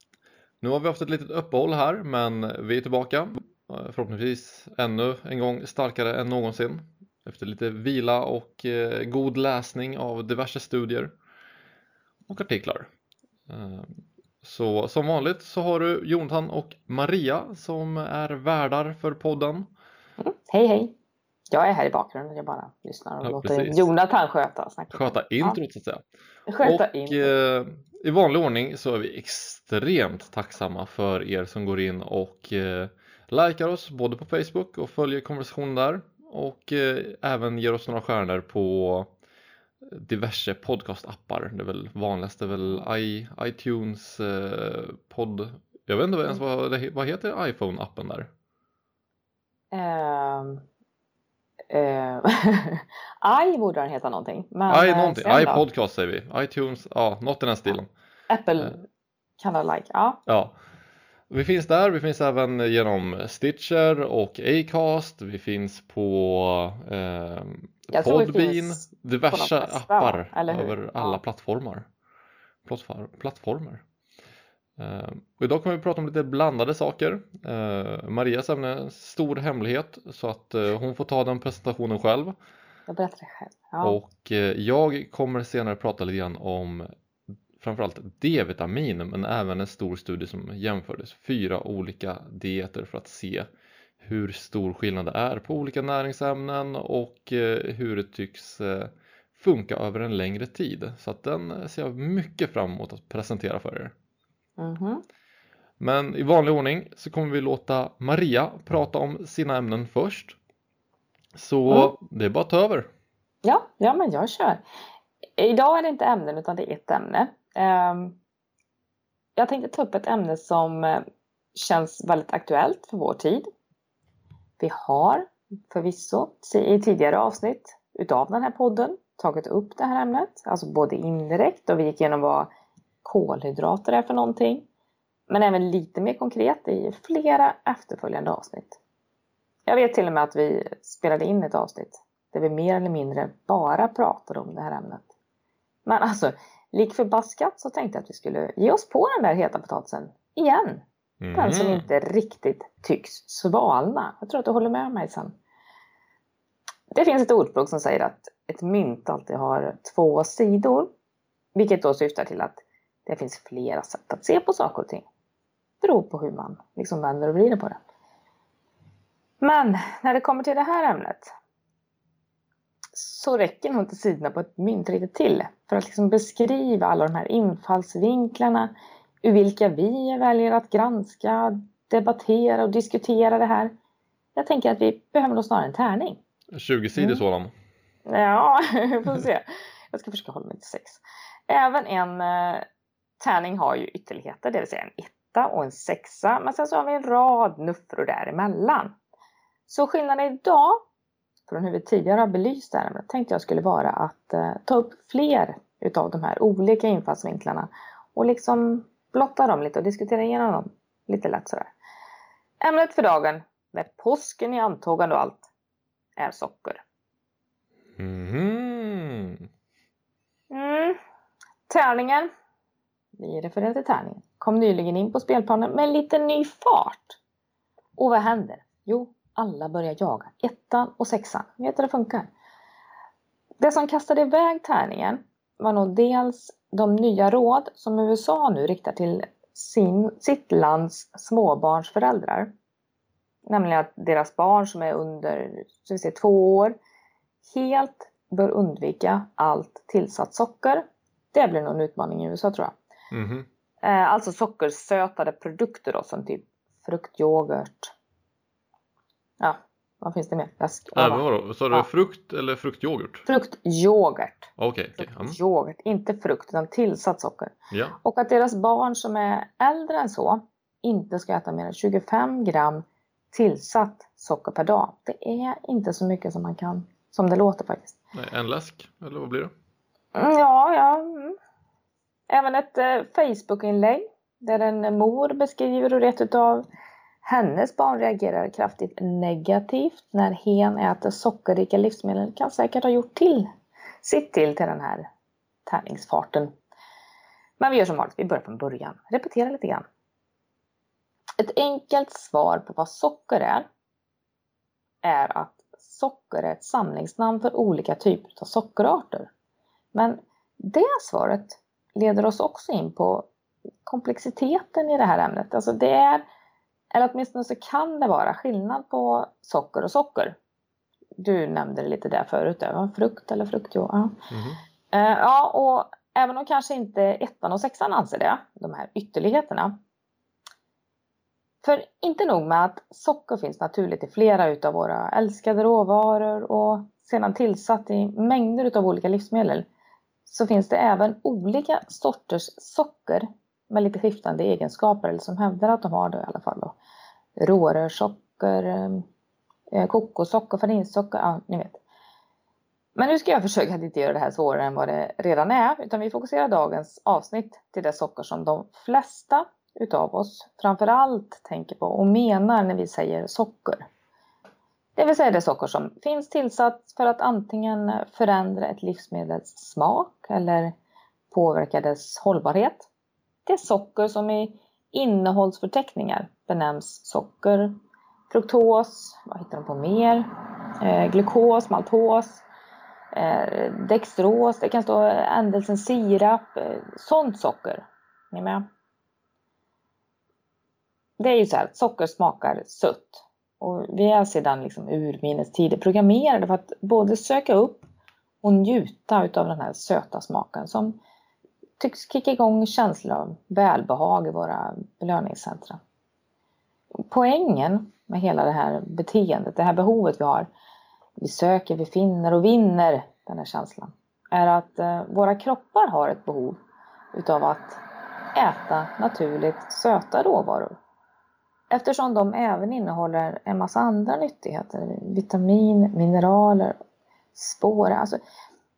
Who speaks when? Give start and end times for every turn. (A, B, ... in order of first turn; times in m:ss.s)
0:00.6-0:11.1 A
0:12.3-0:12.9 A
0:13.5-0:19.7 A
0:20.2-0:21.0 B
0:21.5-0:25.6 B
0:23.2-0:23.9 A
0:24.9-0:26.0 A
0:26.5-0:27.3 B
0:26.6-0:39.1 A
0:39.8-0:48.3 A
0:49.7-0:50.6 B
0:51.7-0:55.6 B
0:54.7-0:57.9 A
0:58.3-0:58.8 B
0:59.4-1:00.2 B
1:00.3-1:00.6 A
1:01.3-1:11.9 A
1:07.9-1:11.2 B
1:12.6-1:13.8 A
1:14.8-1:22.4 A
1:22.9-1:24.0 B
1:23.8-1:26.9 A
1:27.6-1:33.5 A
1:34.0-1:43.9 A
1:44.6-1:45.0 B
1:45.8-1:50.4 A
1:51.4-1:52.9 A
1:53.4-1:54.6 B
1:55.4-1:58.2 B
1:59.4-2:01.0 B
2:01.5-2:03.5 B
2:04.6-2:12.5 B
2:13.0-2:14.6 B
2:15.3-2:18.8 B
2:19.7-2:25.1 B
2:25.9-2:30.8 B
2:31.2-2:31.9 A
2:31.4-2:35.3 B
2:36.9-2:40.9 B
2:41.6-2:45.1 B
2:45.8-2:47.8 B
2:49.4-2:51.3 B
2:52.9-3:03.7 B
3:04.4-3:06.2 B
3:06.5-3:07.5 A
3:07.0-3:07.2 B
3:08.1-3:12.7 B
3:13.2-3:18.9 B
3:19.7-3:20.8 B
3:21.5-3:31.7 B
3:32.6-3:35.5 B
3:36.2-3:36.8 B
3:38.0-3:39.5 A
3:40.5-3:41.0 B
3:41.7-3:42.3 B
3:43.2-3:47.2 B
3:48.0-3:52.3 B
3:53.6-4:02.5 B
4:03.5-4:06.8 B
4:07.4-4:12.7 B
4:13.1-4:13.5 A
4:13.8-4:17.9 B
4:19.4-4:21.9 B
4:20.9-4:23.3 A
4:23.3-4:38.0 B
4:24.6-4:25.4 A
4:27.7-4:28.0 A
4:38.1-4:39.5 A
4:40.1-4:41.4 B
4:42.3-4:46.7 B
4:47.2-4:53.5 B
4:54.0-4:55.1 B
4:55.7-4:56.5 B
4:57.6-4:59.8 B
5:01.4-5:03.7 B
5:05.0-5:09.3 B
5:09.9-5:13.3 B
5:13.8-5:16.3 B
5:16.9-5:20.4 B
5:21.2-5:24.2 B
5:24.3-5:24.6 A
5:24.9-5:29.8 B
5:31.6-5:39.6 B
5:40.3-5:46.8 B
5:47.4-5:49.1 B
5:49.7-5:51.8 B
5:53.0-6:03.9 B
6:05.0-6:10.7 B
6:11.3-6:12.9 B
6:13.5-6:17.8 B
6:18.3-6:20.3 B
6:20.8-6:22.4 B
6:23.1-6:28.6 B
6:31.2-6:37.8 B
6:38.4-6:41.0 B
6:41.8-6:45.8 B
6:47.1-6:50.5 B
6:51.2-6:56.6 B
6:57.1-6:57.8 B
6:58.4-7:00.8 B
7:01.7-7:06.8 B
7:07.4-7:08.2 B